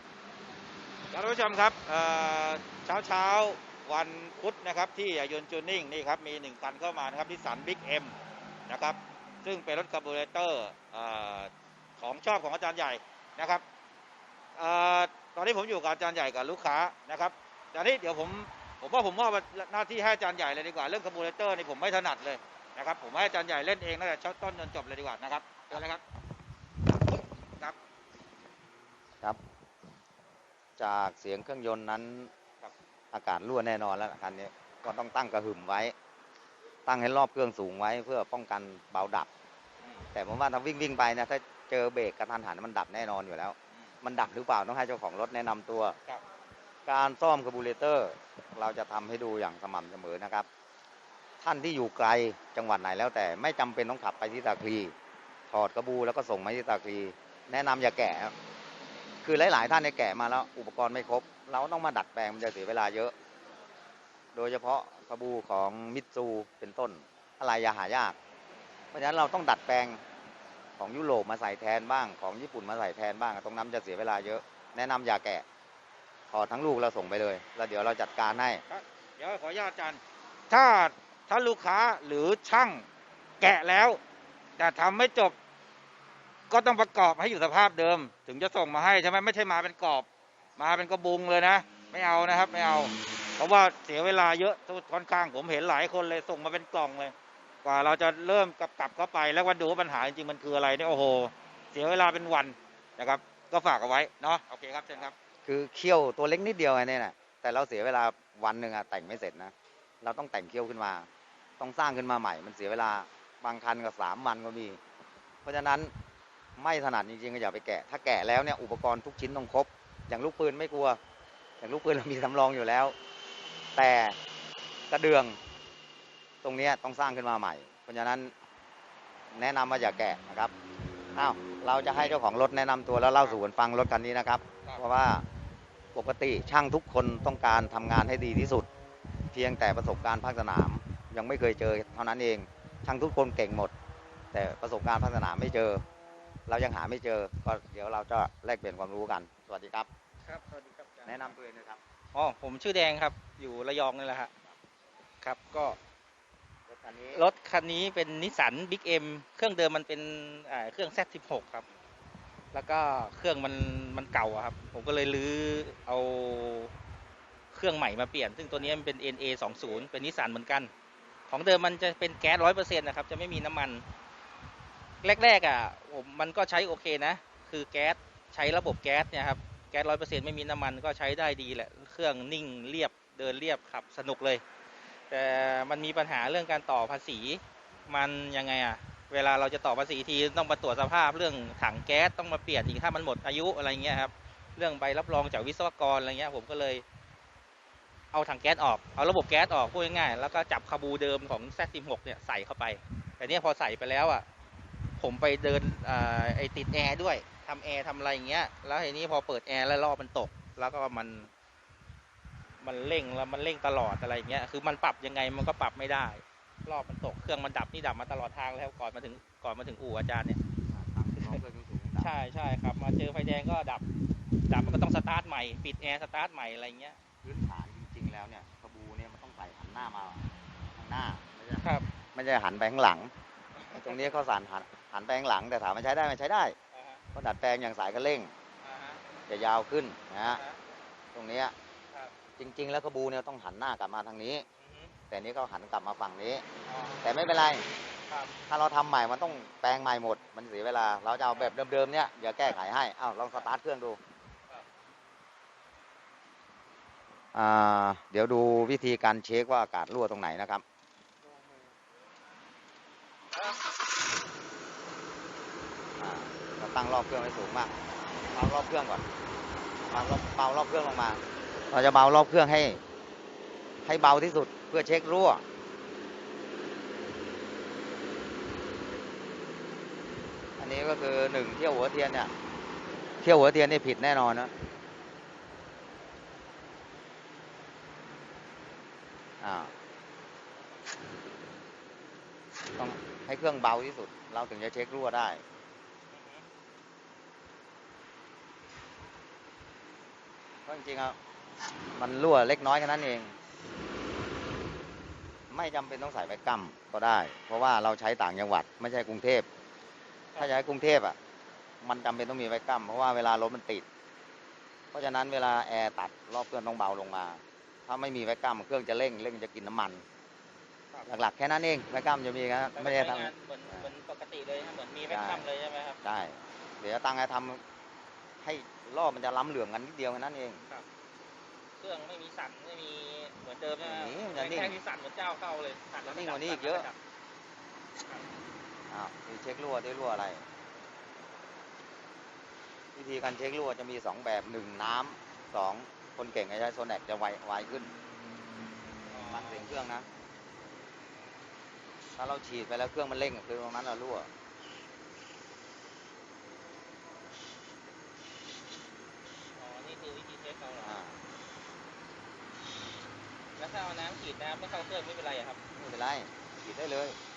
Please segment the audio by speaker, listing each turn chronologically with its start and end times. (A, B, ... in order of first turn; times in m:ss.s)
0:01.1-0:08.2 A
0:08.7-0:13.6 A
0:14.6-0:26.0 A
0:30.8-0:32.3 B
0:33.1-0:35.9 B
0:36.9-0:39.3 B
0:40.1-0:46.0 B
0:46.9-0:50.5 B
0:51.4-0:54.9 B
0:55.5-0:58.3 B
0:59.2-1:03.1 B
1:04.3-1:08.2 B
1:08.9-1:10.0 B
1:10.8-1:15.4 B
1:16.3-1:18.6 B
1:18.7-1:22.9 A
1:23.4-1:24.0 A
1:24.6-1:25.4 A
1:26.5-1:30.1 A
1:30.6-1:45.1 A
1:45.0-1:51.1 B
1:51.6-1:54.8 B
1:55.4-1:55.9 B
1:56.6-2:01.0 B
2:01.6-2:03.0 B
2:03.8-2:04.2 B
2:04.9-2:05.4 B
2:06.4-2:08.3 B
2:09.3-2:10.5 B
2:11.2-2:15.3 B
2:16.0-2:18.7 B
2:19.3-2:23.7 B
2:24.3-2:25.8 B
2:26.5-2:29.9 B
2:30.3-2:31.3 C
2:31.1-2:31.8 B
2:32.1-2:34.3 C
2:35.2-2:35.8 C
2:36.7-2:37.2 B
2:37.1-2:41.7 C
2:42.5-2:46.7 C
2:47.5-2:50.7 C
2:49.5-2:49.8 B
2:51.3-2:53.8 C
2:55.0-3:04.4 C
3:05.1-3:16.8 C
3:18.1-3:24.3 C
3:25.0-3:31.3 C
3:32.6-3:40.4 C
3:40.7-3:42.1 B
3:42.0-3:43.8 C
3:44.5-3:47.0 C
3:47.2-3:53.1 B
3:51.6-3:51.9 C
3:53.6-3:54.2 C
3:53.8-3:56.6 B
3:56.7-3:57.0 C
3:57.1-3:58.3 B
3:58.6-3:59.0 C
3:59.3-4:00.4 B
4:00.2-4:00.6 C
4:01.1-4:01.5 B
4:02.4-4:04.4 B
4:04.6-4:04.9 C
4:05.1-4:06.4 B
4:06.7-4:07.2 C
4:07.0-4:07.6 B
4:08.1-4:08.4 C
4:08.5-4:14.0 B
4:17.3-4:20.6 B
4:21.3-4:21.7 C
4:26.0-4:27.7 B
4:28.3-4:29.1 B
4:29.9-4:32.8 B
4:33.8-4:35.4 B
4:40.6-4:42.3 B
4:43.2-4:44.5 B
4:49.4-4:49.7 B
4:52.8-4:55.4 B
4:56.1-4:56.5 C
5:00.6-5:01.2 B
5:02.0-5:03.4 B
5:05.5-5:09.5 B
5:10.4-5:11.2 B
5:11.8-5:13.9 B
5:14.9-5:20.0 B
5:21.1-5:23.9 B
5:22.8-5:26.0 C
5:25.1-5:25.5 B
5:26.0-5:27.6 B
5:28.4-5:30.6 B
5:31.8-5:37.0 C
5:33.8-5:34.8 B
5:36.0-5:36.9 B
5:38.0-5:38.3 C
5:38.9-5:40.4 B
5:43.0-5:47.9 B
5:49.0-5:49.7 C
5:49.1-5:50.1 B
5:52.2-5:54.3 B
5:59.6-6:01.0 C
6:00.8-6:01.2 B
6:03.6-6:05.6 C
6:05.8-6:07.2 B